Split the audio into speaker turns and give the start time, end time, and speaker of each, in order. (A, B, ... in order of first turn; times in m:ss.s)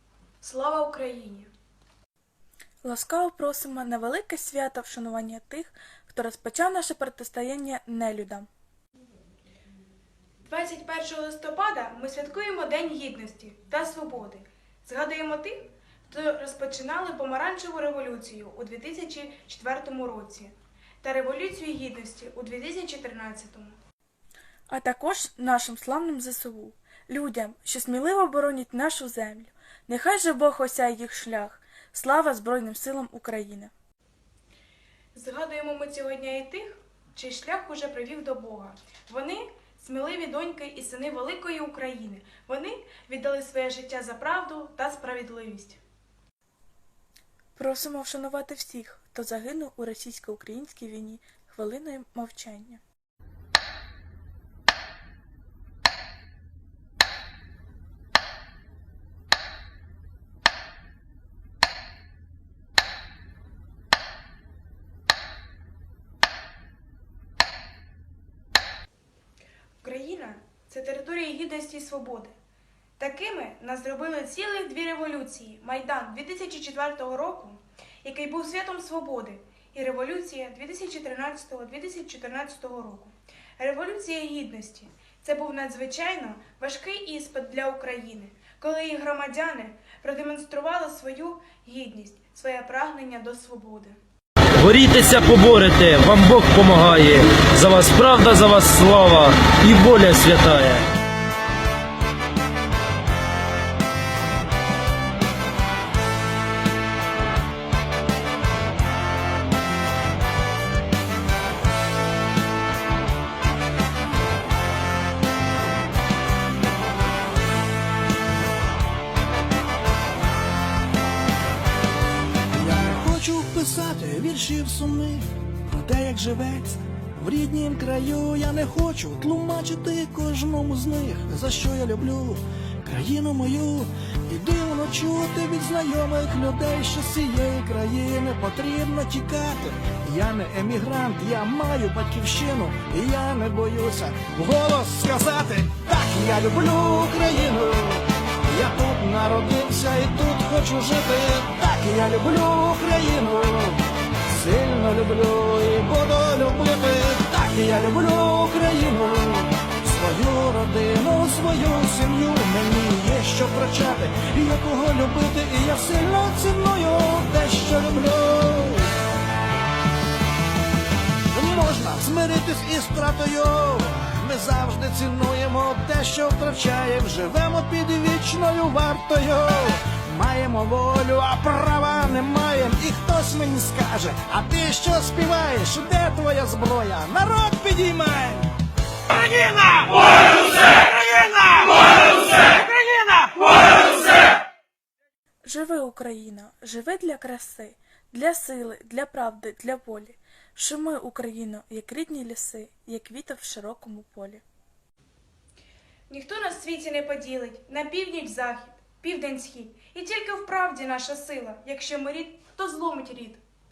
0:00.4-0:01.5 A
0:02.8-0:08.5 B
0:10.4-0:23.8 A
0:24.7-0:33.7 B
0:35.1-0:45.8 A
0:47.6-0:52.8 B
1:09.8-1:12.3 A
1:13.0-1:34.0 A
1:34.6-1:40.8 C
2:02.5-2:48.9 D
2:51.3-3:08.5 D
3:09.1-3:13.5 D
3:15.4-3:24.4 B
3:26.1-3:33.4 A